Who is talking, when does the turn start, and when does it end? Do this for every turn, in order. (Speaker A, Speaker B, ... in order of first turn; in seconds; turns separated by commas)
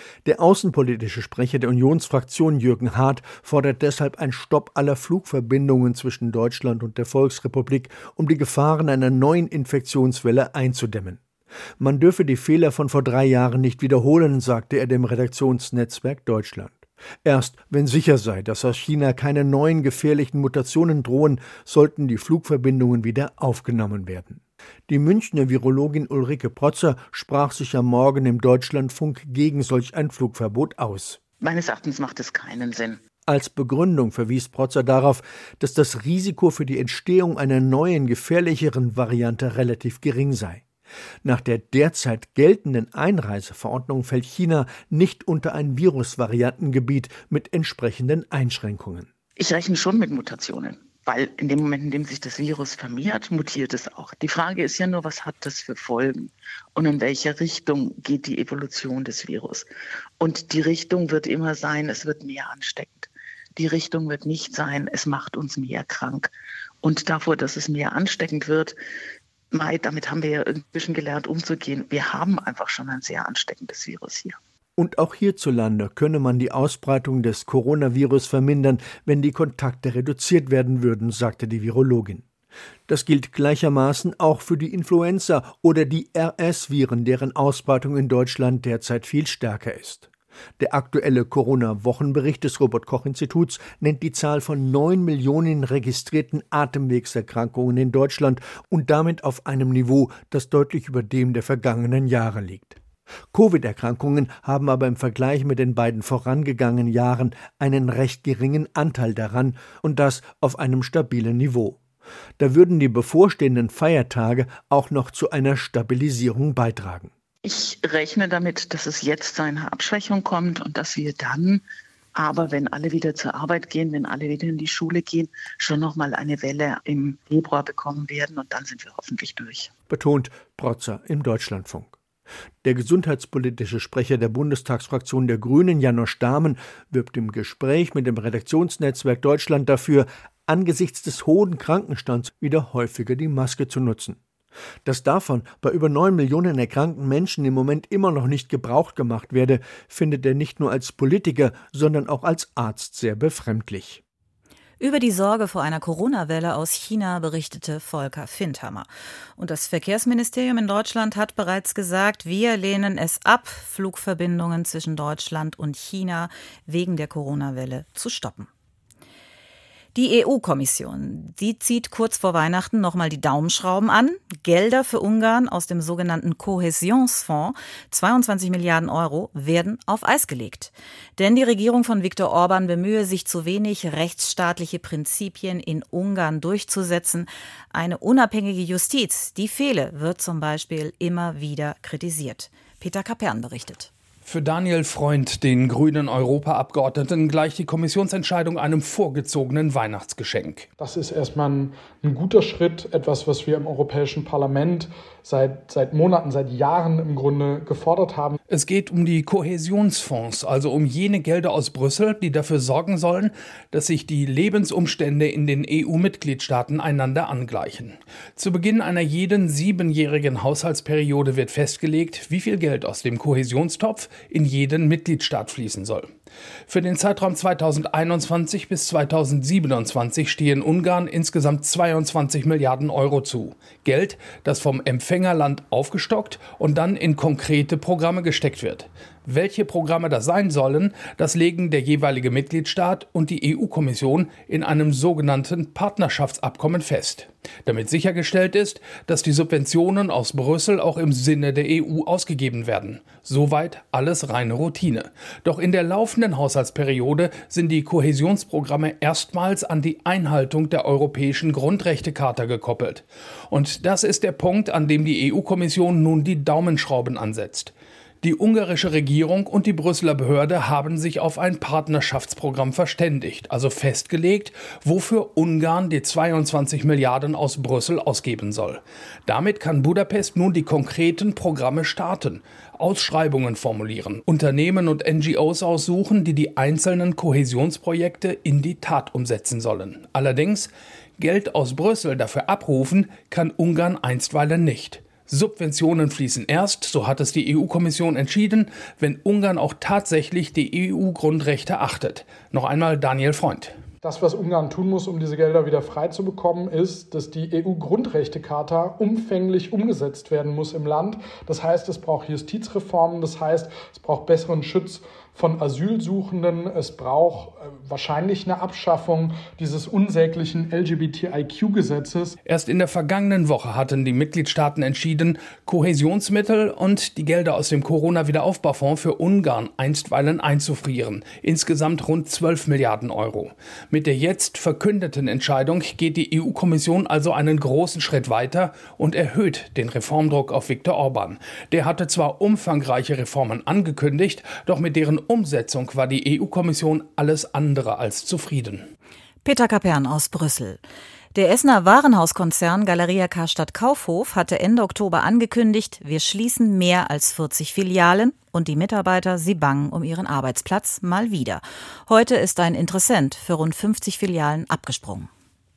Speaker A: 0.2-11.2, Speaker A: 11.8-31.2, Speaker B: 31.4-33.0, Speaker A: 33.3-40.6, Speaker A: 41.2-49.1, Speaker B: 49.4-59.7, Speaker B: 60.2-66.3, Speaker B: 66.8-68.8, Speaker B: 69.5-74.4, Speaker A: 74.8-82.2, Speaker A: 82.9-90.1, Speaker A: 90.6-102.8, Speaker A: 103.3-111.8, Speaker A: 112.4-117.1, Speaker B: 117.4-121.6, Speaker B: 122.2-129.7, Speaker A: 129.9-132.0, Speaker A: 132.6-144.2, Speaker A: 144.8-154.0, Speaker C: 154.8-168.5, Speaker C: 169.9-193.9, Speaker D: 194.2-200.7, Speaker E: 200.8-208.4, Speaker D: 208.5-226.1, Speaker D: 226.7-303.7, Speaker E: 304.0-322.4, Speaker D: 322.4-348.8, Speaker C: 349.4-350.8, Speaker C: 351.3-365.3